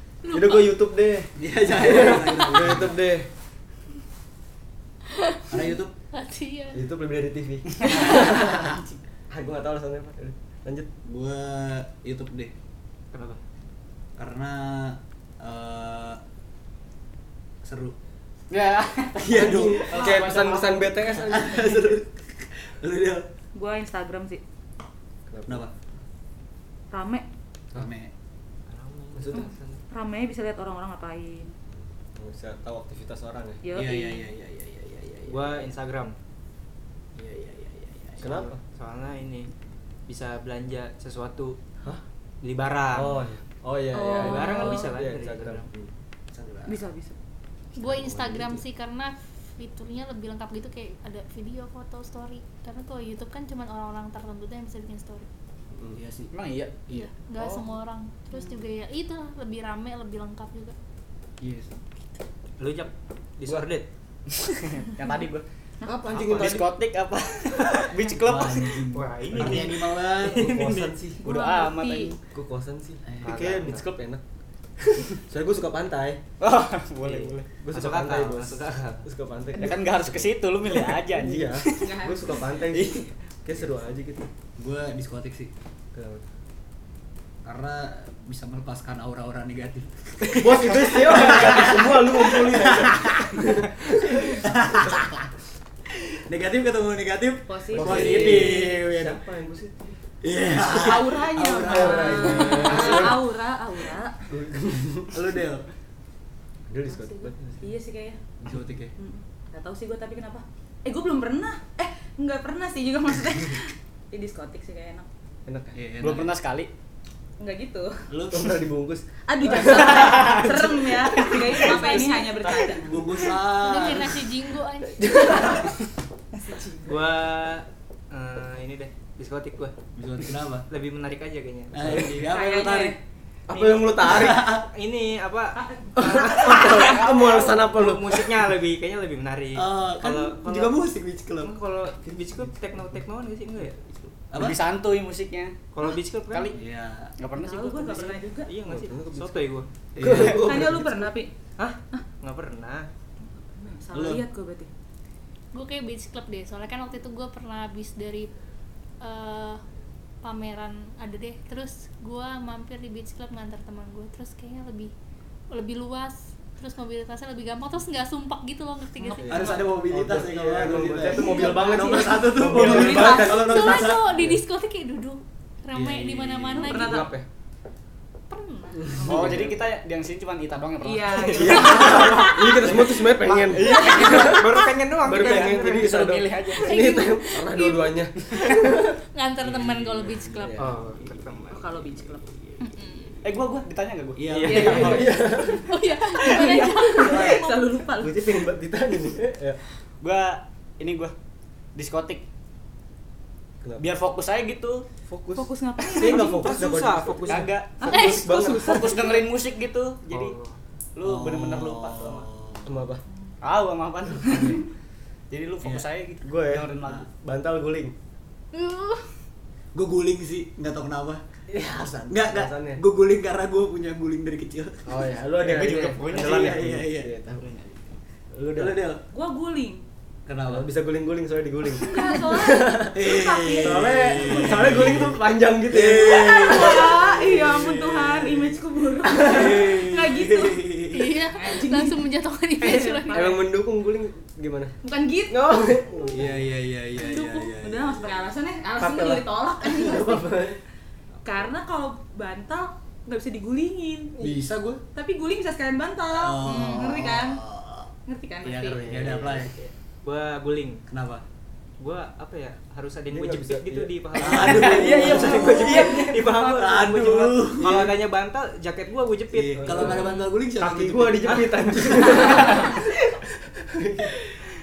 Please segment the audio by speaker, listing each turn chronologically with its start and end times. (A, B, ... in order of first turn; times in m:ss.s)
0:00.2-0:00.7 A
0:00.3-0:03.3 B
0:01.4-0:03.0 C
0:05.1-0:05.6 A
0:05.5-0:05.9 C
0:06.1-0:06.8 A
0:06.7-0:08.8 B
0:07.9-0:08.6 A
0:09.3-0:10.9 B
0:11.0-0:12.5 C
0:13.1-0:13.4 D
0:14.2-0:16.2 C
0:17.6-0:18.0 C
0:18.5-0:21.0 E
0:19.2-0:22.0 B
0:19.3-0:20.0 C
0:21.1-0:23.3 C
0:23.6-0:24.4 F
0:25.3-0:25.7 B
0:25.5-0:25.7 C
0:26.9-0:27.3 F
0:27.8-0:28.1 C
0:28.7-0:29.8 D
0:29.2-0:29.5 B
0:29.3-0:31.5 F
0:31.7-0:33.6 B
0:33.6-0:34.3 F
0:33.7-0:35.7 C
0:35.3-0:36.2 D
0:37.2-0:38.5 C
0:38.2-0:38.6 B
0:38.3-0:39.5 D
0:40.1-0:41.6 D
0:42.4-0:43.2 D
0:42.9-0:45.9 B
0:43.9-0:45.0 F
0:44.1-0:45.7 D
0:46.3-0:46.8 C
0:46.7-0:47.2 F
0:47.8-0:55.3 A
0:47.9-0:48.6 B
0:47.9-0:48.3 C
0:55.7-0:56.0 B
0:55.9-0:56.3 C
0:56.3-0:56.8 E
0:56.9-1:00.7 A
0:57.4-0:57.6 E
1:01.4-1:01.7 C
1:02.6-1:03.9 D
1:04.3-1:05.4 E
1:05.8-1:06.1 F
1:05.8-1:06.7 B
1:06.1-1:08.8 E
1:08.2-1:10.5 C
1:08.9-1:10.9 D
1:09.4-1:09.6 B
1:10.3-1:11.2 B
1:11.2-1:12.2 F
1:11.2-1:12.2 E
1:12.3-1:14.2 B
1:13.0-1:13.4 C
1:13.2-1:13.9 D
1:14.8-1:16.2 B
1:16.4-1:17.4 E
1:17.0-1:24.3 B
1:17.7-1:19.1 D
1:19.6-1:21.9 E
1:21.7-1:22.4 F
1:22.7-1:23.1 E
1:24.6-1:25.5 C
1:25.9-1:26.2 B
1:27.4-1:35.3 C
1:30.3-1:34.9 B
1:36.1-1:39.2 C
1:37.5-1:38.4 F
1:37.7-1:38.6 E
1:37.8-1:40.0 B
1:40.2-1:43.2 C
1:40.6-1:44.3 F
1:41.6-1:43.2 B
1:44.3-1:45.4 B
1:45.1-1:45.6 C
1:46.7-1:47.7 B
1:46.9-1:48.2 F
1:48.4-1:48.9 C
1:49.0-1:55.1 F
1:55.5-1:56.2 B
1:55.7-1:56.3 C
1:56.0-1:56.7 E
1:57.4-1:58.1 F
1:58.1-1:58.6 C
1:58.3-2:00.5 B
1:59.3-2:03.3 F
2:01.3-2:02.2 E
2:02.9-2:04.3 C
2:03.5-2:05.3 A
2:05.0-2:05.8 B
2:06.3-2:07.0 F
2:06.9-2:09.8 D
2:10.0-2:10.7 C
2:10.7-2:12.1 D
2:11.7-2:13.0 C
2:12.3-2:13.0 F
2:13.5-2:14.5 B
2:13.5-2:20.8 D
2:14.0-2:14.7 C
2:15.6-2:16.3 F
2:16.0-2:18.5 B
2:16.8-2:17.2 E
2:19.6-2:21.5 C
2:21.4-2:23.8 D
2:23.6-2:24.1 B
2:24.3-2:24.6 C
2:24.3-2:25.7 E
2:25.7-2:26.6 D
2:26.3-2:26.6 E
2:26.5-2:27.1 C
2:27.2-2:28.2 E
2:27.4-2:28.5 F
2:28.5-2:29.7 D
2:28.6-2:29.4 B
2:30.0-2:30.8 C
2:30.0-2:31.1 B
2:30.1-2:31.4 F
2:31.6-2:32.9 D
2:33.2-2:34.7 F
2:33.9-2:34.2 C
2:35.5-2:38.3 A
2:39.0-2:39.6 A
2:40.2-2:44.9 A
2:45.5-2:49.5 A
2:49.0-2:49.6 F
2:49.2-2:54.4 B
2:49.3-2:54.1 C
2:51.0-2:53.5 F
2:53.4-2:57.1 A
2:55.7-2:56.9 C
2:56.6-2:57.2 F
2:56.7-2:57.2 B
2:58.3-2:59.0 A
2:58.9-2:59.4 B
2:59.0-2:59.4 F
2:59.0-3:06.9 E
3:00.8-3:02.4 F
3:01.2-3:03.0 D
3:01.3-3:09.0 B
3:03.6-3:06.1 D
3:03.7-3:04.3 F
3:06.6-3:10.6 A
3:09.4-3:11.2 C
3:10.4-3:10.8 B
3:10.6-3:11.6 D
3:11.5-3:13.1 F
3:13.2-3:15.2 E
3:14.2-3:14.8 C
3:14.3-3:15.0 D
3:14.5-3:18.3 F
3:14.6-3:15.7 B
3:15.7-3:17.6 A
3:18.0-3:19.6 B
3:20.0-3:21.1 E
3:21.8-3:22.2 E
3:23.8-3:24.9 E
3:25.1-3:29.0 B
3:25.4-3:26.6 F
3:25.9-3:27.5 D
3:27.3-3:30.4 E
3:27.8-3:29.2 F
3:30.1-3:30.6 D
3:31.0-3:32.3 E
3:31.0-3:32.8 C
3:32.6-3:33.0 B
3:33.4-3:34.6 E
3:34.3-3:34.6 C
3:35.3-3:37.1 E
3:36.2-3:37.9 B
3:38.5-3:39.1 A
3:39.7-3:45.0 C
3:41.5-3:42.8 B
3:44.9-3:47.5 B
3:45.4-3:46.6 E
3:45.7-3:47.1 C
3:48.3-3:48.8 B
3:48.5-3:49.0 C
3:49.1-3:49.8 F
3:50.3-3:50.7 C
3:50.4-3:53.0 B
3:51.8-3:54.4 F
3:52.9-3:58.3 C
3:53.6-3:57.0 B
3:56.1-4:03.5 F
3:59.1-3:59.6 B
3:59.2-4:01.2 C
4:00.9-4:03.4 A
4:03.1-4:04.7 B
4:04.8-4:06.2 F
4:05.3-4:06.4 B
4:06.1-4:08.2 C
4:07.1-4:10.3 F
4:08.8-4:10.6 B
4:11.2-4:14.2 F
4:14.2-4:14.4 B
4:14.2-4:14.8 C
4:15.0-4:17.4 F
4:16.1-4:17.9 C
4:18.1-4:19.0 F
4:18.4-4:19.6 C
4:18.6-4:19.6 B
4:20.0-4:20.8 D
4:20.9-4:21.2 C
4:21.8-4:30.0 D
4:23.1-4:24.5 B
4:24.2-4:27.9 C
4:24.3-4:26.2 E
4:27.6-4:27.9 B
4:29.3-4:31.6 C
4:29.5-4:34.3 B
4:31.2-4:32.9 D